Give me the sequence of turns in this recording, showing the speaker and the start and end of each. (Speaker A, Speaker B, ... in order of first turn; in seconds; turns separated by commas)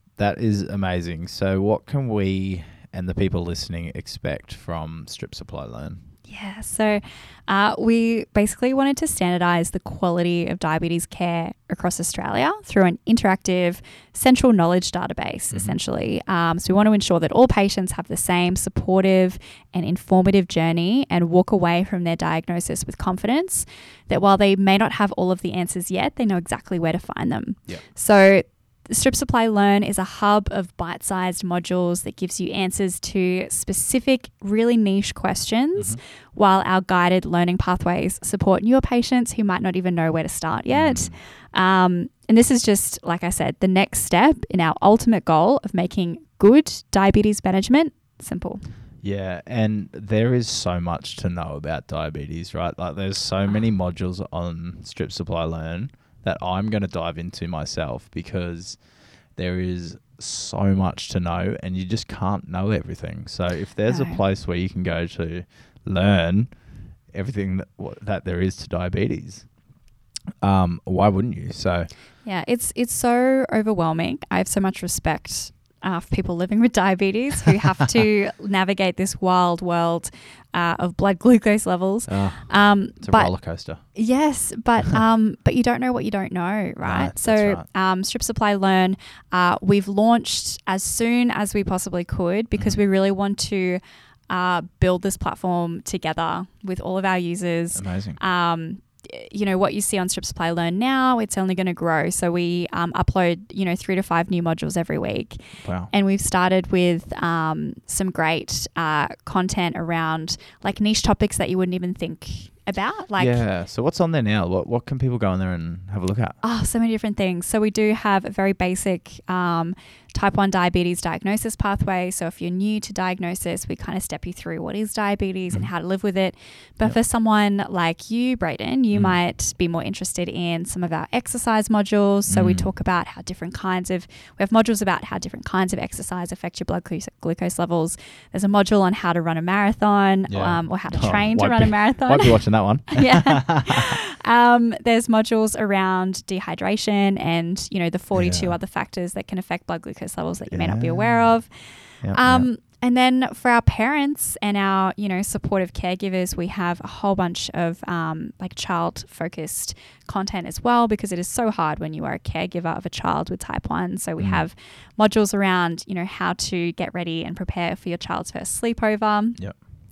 Speaker A: 0.2-6.0, Speaker B: 6.3-48.6, Speaker A: 15.5-15.8, Speaker A: 35.7-36.0, Speaker A: 40.7-41.2, Speaker A: 49.0-58.8, Speaker A: 59.3-69.5, Speaker B: 63.9-64.2, Speaker A: 70.4-71.9, Speaker B: 72.2-113.4, Speaker A: 82.1-83.8, Speaker A: 86.8-87.6, Speaker A: 97.7-98.2, Speaker A: 105.6-105.9, Speaker A: 113.2-116.4, Speaker B: 116.4-169.4, Speaker A: 128.9-129.2, Speaker A: 132.3-132.7, Speaker A: 140.3-144.0, Speaker A: 148.1-148.5, Speaker A: 150.5-151.4, Speaker A: 152.0-152.5, Speaker A: 164.2-164.4